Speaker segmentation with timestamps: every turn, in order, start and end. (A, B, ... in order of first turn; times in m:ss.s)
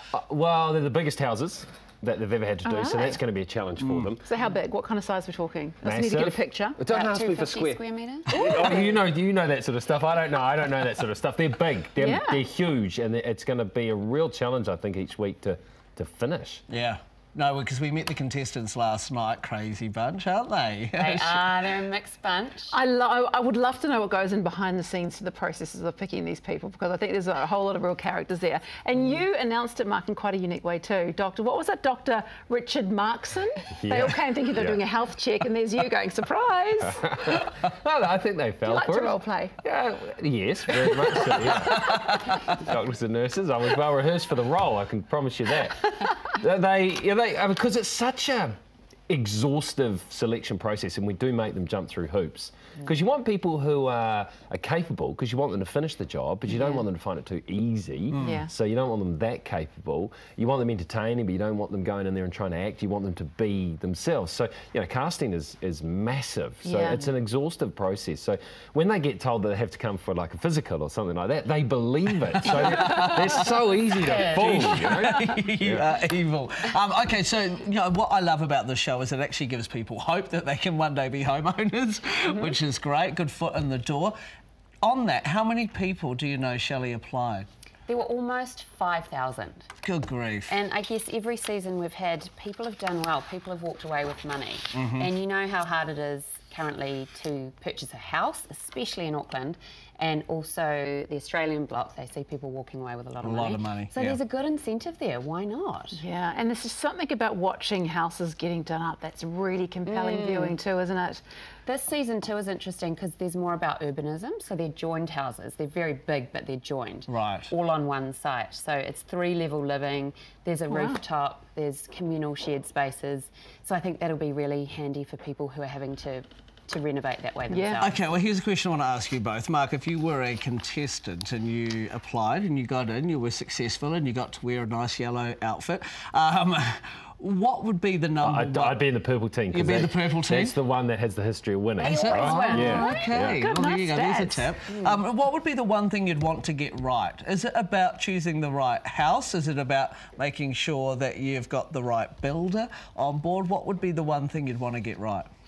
0:00.1-0:04.2 A
0:02.6-0:03.2 B
0:03.8-0:04.1 C
0:04.2-0:06.8 B
0:05.8-0:16.6 A
0:06.9-0:08.9 D
0:08.3-0:08.9 B
0:12.0-0:12.4 B
0:16.7-0:21.5 C
0:20.9-0:22.8 D
0:22.7-0:37.1 B
0:33.8-0:34.8 A
0:37.0-0:48.5 A
0:38.7-0:39.6 B
0:41.5-0:42.0 C
0:49.1-1:15.9 A
0:58.2-0:58.5 B
1:06.6-1:07.0 B
1:12.4-1:13.6 C
1:13.9-1:14.8 D
1:14.1-1:24.2 C
1:22.3-1:22.6 D
1:24.8-1:27.5 C
1:27.9-1:29.7 D
1:29.8-1:30.5 C
1:30.5-1:46.0 D
1:34.7-1:35.1 C
1:43.2-1:44.2 C
1:45.9-1:51.2 B
1:49.9-1:50.6 D
1:51.6-2:08.0 D
1:57.1-1:57.5 C
2:00.7-2:01.0 B
2:07.5-2:07.8 B
2:07.8-2:18.8 C
2:18.2-2:23.4 A
2:19.5-2:20.5 C
2:21.8-2:23.1 D
2:21.8-2:35.3 C
2:22.5-2:24.5 B
2:24.7-2:25.0 D